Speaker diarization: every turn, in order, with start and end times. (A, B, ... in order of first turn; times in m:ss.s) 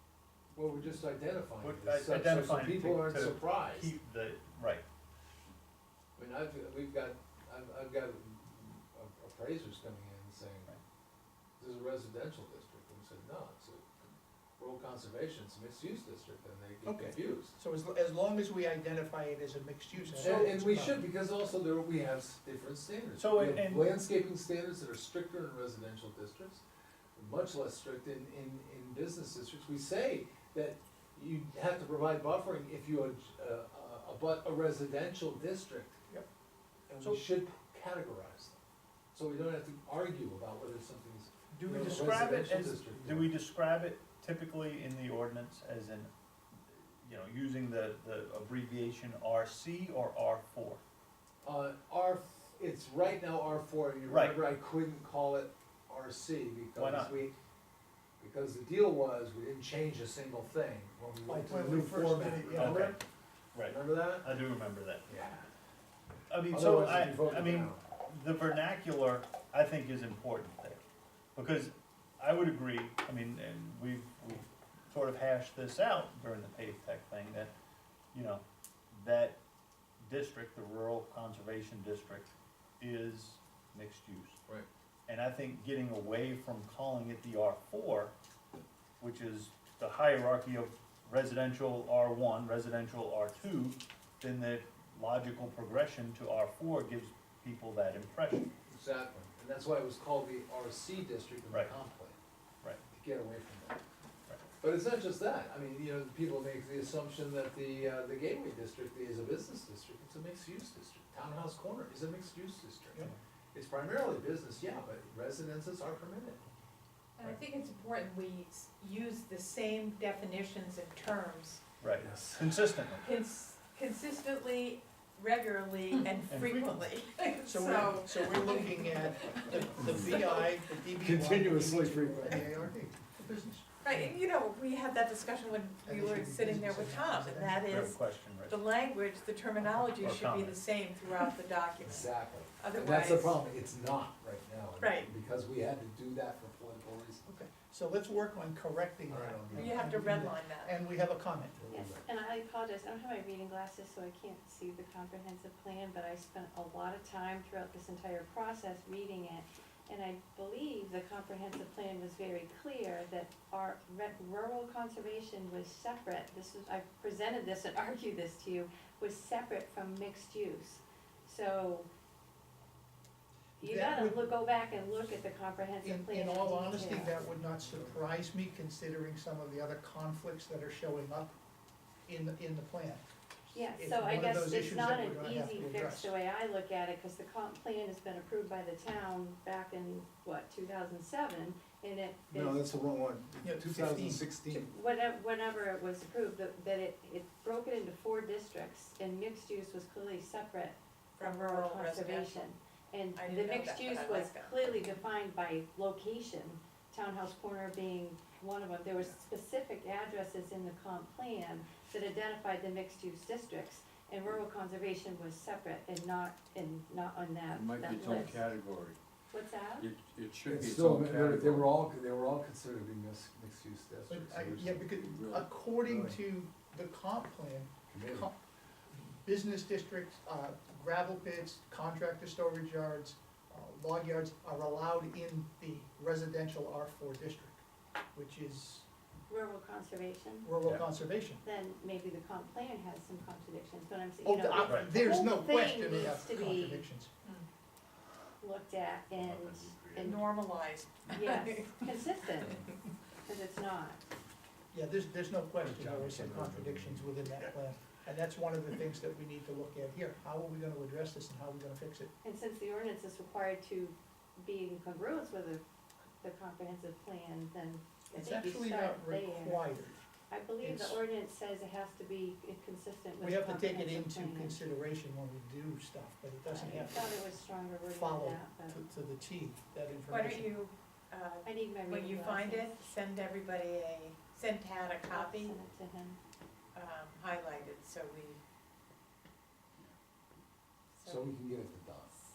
0:00.5-0:03.9 A
0:01.6-0:04.8 B
0:06.2-0:10.7 A
0:11.6-0:17.5 A
0:16.8-0:21.0 C
0:20.1-0:26.6 A
0:23.2-0:24.0 B
0:27.2-0:36.0 A
0:36.9-0:38.6 A
0:39.1-0:43.3 A
0:41.5-0:41.8 C
0:41.6-0:46.1 B
0:46.7-0:50.8 B
0:51.4-0:57.3 A
0:54.0-0:54.4 B
0:56.7-0:57.2 B
0:58.2-1:03.0 A
1:01.3-1:02.9 C
1:02.5-1:03.0 B
1:03.5-1:05.1 B
1:03.6-1:04.3 A
1:05.1-1:05.5 A
1:06.3-1:10.8 B
1:06.5-1:07.8 A
1:11.3-1:17.5 B
1:18.1-1:19.4 B
1:20.0-1:24.4 B
1:25.1-1:28.1 B
1:29.0-1:38.5 B
1:38.7-1:42.2 A
1:42.9-1:43.8 A
1:44.6-1:56.4 A
1:57.2-2:01.6 D
2:01.8-2:03.0 B
2:02.0-2:02.8 A
2:03.0-2:10.6 D
2:06.3-2:06.7 B
2:07.4-2:13.7 C
2:09.8-2:10.3 A
2:10.9-2:12.7 A
2:13.8-2:23.4 D
2:15.8-2:17.7 C
2:17.7-2:18.6 B
2:19.6-2:20.6 B
2:21.8-2:27.2 A
2:24.8-2:25.1 D
2:27.2-2:31.6 C
2:29.1-2:30.0 A
2:29.5-2:30.8 D
2:31.6-2:32.0 A
2:31.7-2:51.9 E
2:53.6-2:57.2 E
2:53.6-2:54.3 C
2:55.8-3:01.3 C
3:02.0-3:06.1 C
3:03.5-3:12.6 E
3:12.3-3:14.7 A
3:13.4-3:14.3 C
3:14.5-3:38.5 E
3:21.2-3:22.5 D
3:23.2-3:24.6 D
3:37.5-3:39.0 F
3:39.3-3:39.9 E
3:39.8-3:41.8 F
3:40.5-3:44.7 A
3:44.1-3:48.4 C
3:44.3-3:45.5 F
3:45.8-3:46.2 A
3:47.9-3:48.3 A
3:48.9-3:57.6 C
3:58.1-3:58.9 C
3:59.3-4:00.5 E
4:00.4-4:01.4 C
4:01.4-4:06.9 E
4:04.2-4:07.1 C
4:08.4-4:10.3 E
4:10.0-4:12.7 D
4:11.0-4:12.7 E
4:13.2-4:14.0 E
4:14.7-4:22.1 C
4:15.7-4:17.1 F
4:22.2-4:25.6 E
4:26.2-4:29.7 E
4:28.1-4:29.9 C
4:30.3-4:34.6 E
4:30.6-4:31.0 C
4:33.2-4:40.5 C
4:36.4-4:38.8 E
4:40.1-4:45.6 D
4:41.4-4:42.7 E
4:45.1-4:46.2 E
4:46.7-4:48.4 D
4:51.0-4:51.3 D
4:51.0-4:52.1 A